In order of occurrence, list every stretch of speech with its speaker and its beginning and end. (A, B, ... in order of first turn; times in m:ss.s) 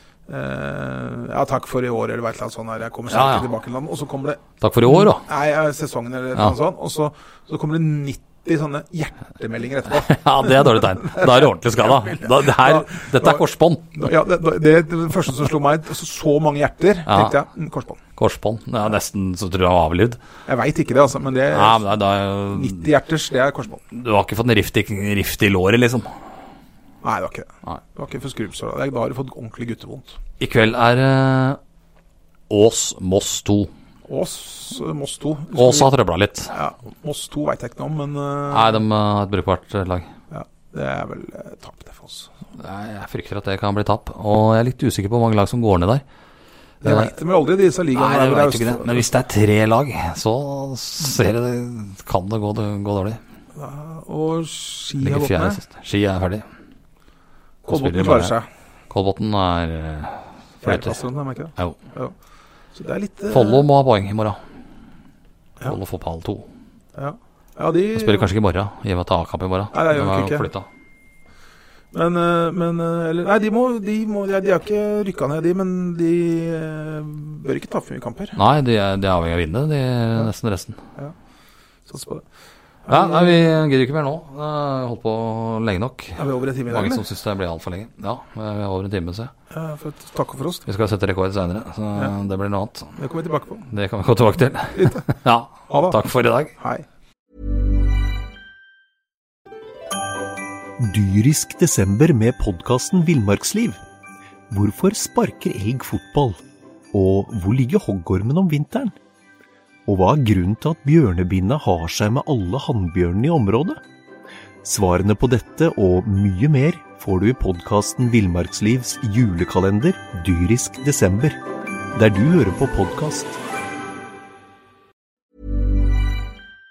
0:00.3-0:13.4 A
0:03.1-0:03.5 B
0:04.6-0:05.2 B
0:09.9-0:14.1 B
0:13.9-0:18.0 A
0:17.1-0:17.4 B
0:18.2-0:20.2 B
0:20.5-0:21.8 A
0:21.5-0:22.8 B
0:22.5-0:23.8 A
0:23.9-0:26.1 B
0:27.0-0:30.2 A
0:30.4-0:31.6 B
0:32.5-0:33.7 B
0:34.0-0:35.9 A
0:35.6-0:36.5 B
0:36.5-0:38.8 A
0:38.5-0:40.1 B
0:40.3-0:42.3 A
0:42.6-0:46.0 B
0:46.8-0:47.1 B
0:46.8-0:49.0 A
0:47.9-0:53.2 B
0:53.6-0:55.6 A
0:55.0-0:56.4 B
0:57.6-0:58.5 A
0:57.7-0:58.4 B
0:58.9-1:01.0 B
1:00.6-1:02.1 A
1:02.7-1:03.6 A
1:03.3-1:04.4 B
1:05.6-1:06.4 B
1:07.0-1:08.3 A
1:07.9-1:10.7 B
1:09.7-1:10.5 A
1:11.9-1:18.4 A
1:18.4-1:20.8 B
1:21.9-1:22.2 A
1:22.9-1:23.5 A
1:22.9-1:29.3 B
1:26.2-1:27.0 A
1:29.5-1:30.6 A
1:30.7-1:32.9 B
1:33.0-1:33.6 A
1:33.7-1:36.5 B
1:34.7-1:35.0 A
1:35.7-1:36.0 A
1:36.6-1:36.8 A
1:40.8-1:43.8 C
1:44.5-1:46.4 C
1:46.9-1:49.0 C
1:49.9-1:53.8 C
1:54.6-2:01.4 C
2:01.9-2:03.4 C